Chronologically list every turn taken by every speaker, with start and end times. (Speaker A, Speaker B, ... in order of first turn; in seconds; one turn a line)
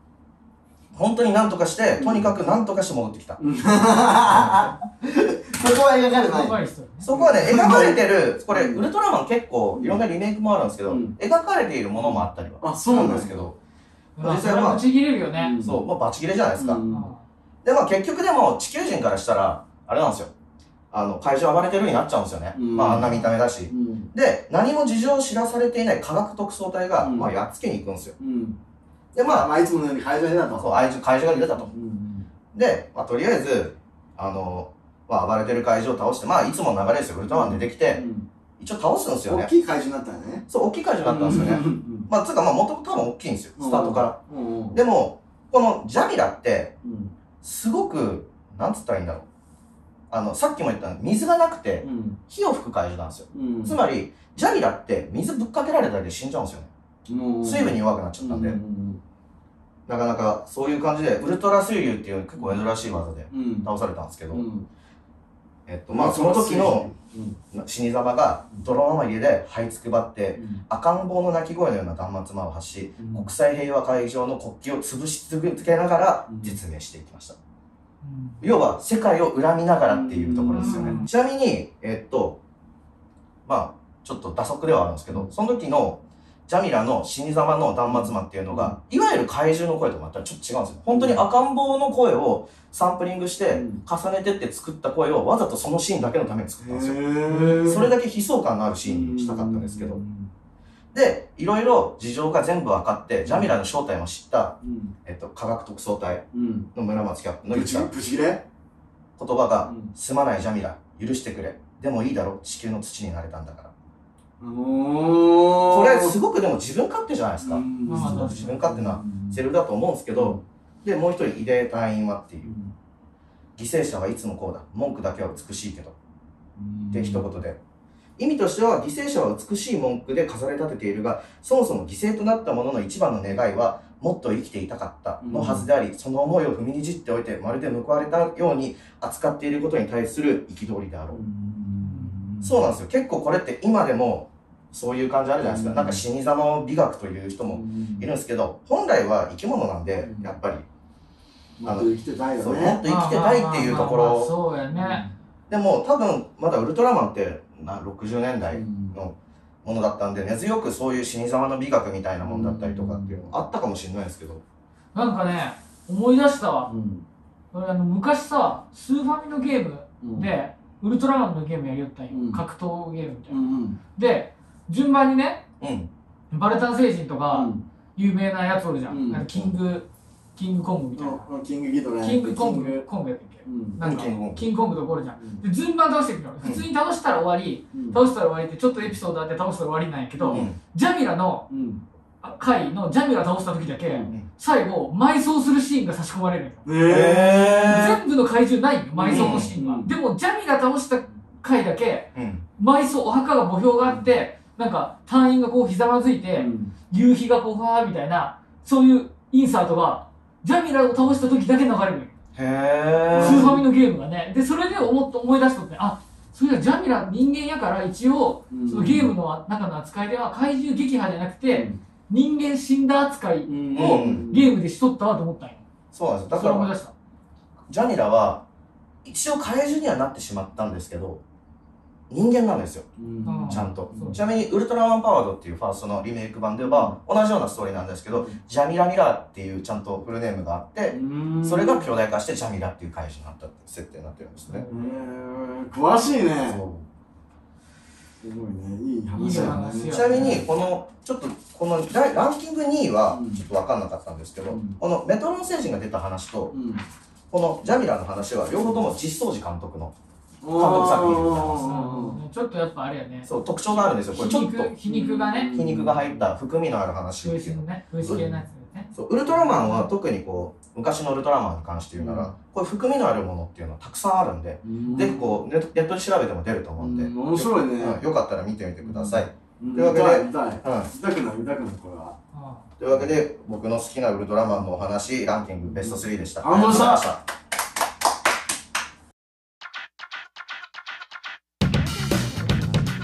Speaker A: 0.9-3.4
Speaker B: 1.9-2.4
Speaker B: 3.4-8.8
Speaker C: 4.3-4.6
Speaker C: 6.2-7.1
Speaker A: 7.0-13.6
Speaker B: 9.7-10.0
Speaker B: 10.9-11.2
Speaker B: 11.9-13.5
Speaker C: 14.2-15.5
Speaker A: 14.2-14.9
Speaker B: 15.3-15.8
Speaker A: 15.6-16.8
Speaker B: 16.6-17.1
Speaker C: 16.9-17.2
Speaker A: 17.6-20.3
Speaker A: 20.9-28.1
Speaker B: 22.5-24.1
Speaker B: 27.0-27.4
Speaker B: 28.2-28.6
Speaker A: 29.1-29.5
Speaker B: 29.3-30.8
Speaker A: 30.5-31.7
Speaker B: 31.6-32.3
Speaker A: 32.5-38.0
Speaker B: 37.2-38.3
Speaker A: 38.6-39.5
Speaker B: 39.2-40.5
Speaker A: 40.5-44.2
Speaker B: 41.0-42.1
Speaker B: 43.5-44.8
Speaker A: 44.7-46.8
Speaker B: 46.8-47.1
Speaker A: 47.4-49.3
Speaker A: 50.1-56.7
Speaker B: 51.8-52.2
Speaker B: 53.3-53.8
Speaker B: 57.0-59.0
Speaker A: 57.4-58.6
Speaker A: 59.9-64.5
Speaker B: 62.4-62.7
Speaker B: 63.3-63.7
Speaker B: 64.3-64.7
Speaker A: 65.7-66.9
Speaker B: 65.9-67.4
Speaker A: 67.5-77.3
Speaker B: 70.3-70.6
Speaker B: 73.0-73.3
Speaker B: 76.3-76.6
Speaker C: 78.0-78.5
Speaker A: 78.4-82.4
Speaker B: 79.9-81.0
Speaker C: 80.5-81.1
Speaker A: 83.5-100.0
Speaker B: 87.9-88.8
Speaker B: 90.9-91.2
Speaker B: 93.5-93.8
Speaker B: 96.6-98.0
Speaker B: 98.8-100.3
Speaker A: 100.9-107.9
Speaker B: 103.2-103.5
Speaker B: 104.6-104.9
Speaker B: 106.3-106.7
Speaker B: 107.5-108.4
Speaker A: 109.2-113.7
Speaker B: 109.6-109.9
Speaker B: 114.4-116.1
Speaker A: 115.7-122.5
Speaker B: 117.4-119.5
Speaker C: 117.8-118.7
Speaker B: 120.1-120.4
Speaker B: 122.4-122.7
Speaker A: 123.6-125.9
Speaker B: 126.5-127.3
Speaker A: 126.9-127.6
Speaker A: 128.2-141.2
Speaker B: 135.2-135.7
Speaker B: 141.1-142.7
Speaker C: 141.8-142.2
Speaker A: 142.4-150.6
Speaker B: 145.4-146.0
Speaker B: 147.5-148.1
Speaker B: 150.0-150.4
Speaker B: 151.6-152.8
Speaker A: 151.6-154.3
Speaker C: 152.8-155.0
Speaker B: 154.7-155.1
Speaker A: 155.5-164.4
Speaker B: 158.5-158.9
Speaker B: 162.2-163.3
Speaker C: 164.9-166.7
Speaker B: 166.7-167.0
Speaker C: 167.5-175.4
Speaker B: 170.0-170.3
Speaker B: 172.1-172.4
Speaker B: 173.3-173.8
Speaker A: 175.6-175.9
Speaker C: 176.3-181.3
Speaker B: 177.3-177.6
Speaker B: 178.9-179.5
Speaker B: 180.9-182.9
Speaker C: 182.0-191.4
Speaker B: 183.4-183.8
Speaker A: 183.8-184.5
Speaker B: 185.2-185.4
Speaker B: 187.7-188.0
Speaker B: 190.2-190.5
Speaker A: 190.3-190.6
Speaker B: 191.5-191.8
Speaker C: 192.2-196.7
Speaker B: 193.8-194.1
Speaker B: 196.6-197.7
Speaker A: 196.8-198.0
Speaker C: 197.4-212.1
Speaker B: 198.9-199.9
Speaker A: 199.1-199.6
Speaker A: 202.1-202.4
Speaker B: 203.8-204.1
Speaker B: 206.4-206.7
Speaker A: 212.3-213.4
Speaker B: 213.1-213.7
Speaker C: 213.2-225.6
Speaker B: 218.5-219.1
Speaker B: 221.5-221.8
Speaker B: 223.4-224.6
Speaker A: 223.7-224.3
Speaker A: 225.9-226.7
Speaker C: 226.3-226.9
Speaker A: 227.7-228.4
Speaker A: 229.0-231.2
Speaker A: 232.1-232.8
Speaker B: 233.0-234.2
Speaker C: 233.2-234.2
Speaker A: 233.4-244.7
Speaker B: 236.6-237.0
Speaker B: 238.1-238.4
Speaker B: 240.9-241.9
Speaker C: 244.4-245.1
Speaker B: 244.7-246.6
Speaker A: 246.4-246.8
Speaker B: 248.2-250.4
Speaker C: 249.2-250.4
Speaker A: 249.2-256.5
Speaker B: 253.1-253.4
Speaker B: 254.5-254.8
Speaker B: 256.5-256.9
Speaker A: 257.3-259.9
Speaker B: 258.6-258.8
Speaker B: 260.4-262.2
Speaker A: 260.5-261.8
Speaker C: 261.6-265.6
Speaker A: 263.2-264.7
Speaker B: 264.8-266.1
Speaker A: 265.5-268.2
Speaker C: 267.2-269.9
Speaker B: 268.0-268.4
Speaker A: 268.9-280.9
Speaker B: 271.9-272.3
Speaker B: 274.6-275.4
Speaker B: 276.8-278.0
Speaker B: 278.8-282.1
Speaker C: 282.3-282.7
Speaker A: 282.8-287.2
Speaker B: 285.6-287.1